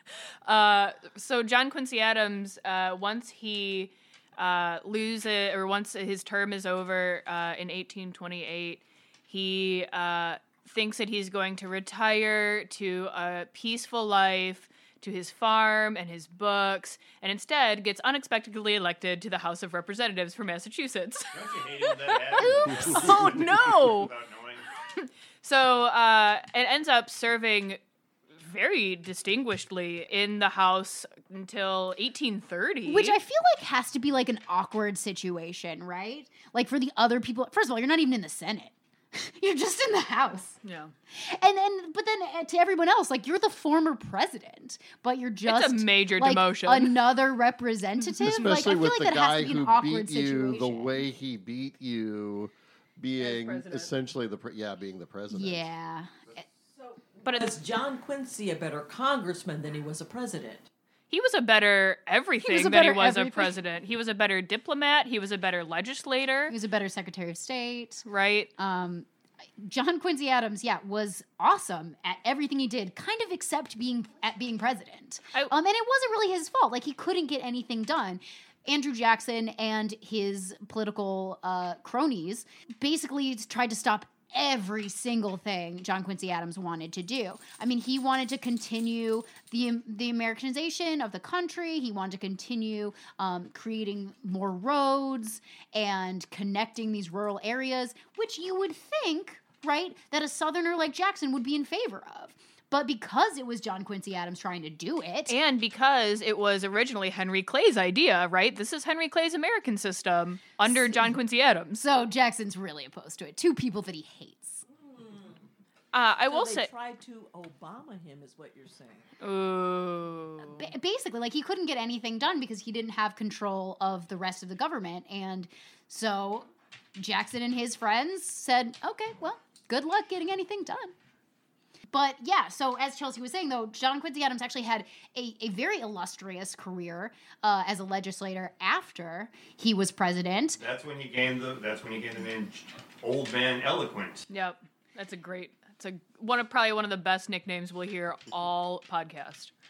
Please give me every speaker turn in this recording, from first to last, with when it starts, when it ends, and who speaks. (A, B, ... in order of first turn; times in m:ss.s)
0:00.5-0:21.3 A
0:21.3-0:24.7 B
0:22.3-0:24.1 A
0:25.4-0:27.8 A
0:28.4-0:33.2 A
0:32.8-0:40.6 C
0:40.6-0:40.9 A
0:41.2-0:51.0 C
0:45.5-0:47.0 A
0:48.2-0:55.7 D
0:55.3-0:56.1 C
0:56.9-1:00.7 E
0:57.2-0:57.5 A
1:01.1-1:06.5 A
1:02.4-1:03.6 C
1:06.5-1:09.1 C
1:08.1-1:08.5 A
1:09.6-1:45.4 C
1:45.3-1:51.8 A
1:50.6-1:51.2 C
1:51.8-1:54.6 C
1:55.9-1:56.7 A
1:56.2-1:59.0 E
1:59.2-2:00.6 A
2:00.4-2:10.9 C
2:11.9-2:20.6 C
2:20.6-2:24.3 B
2:24.3-2:29.5 A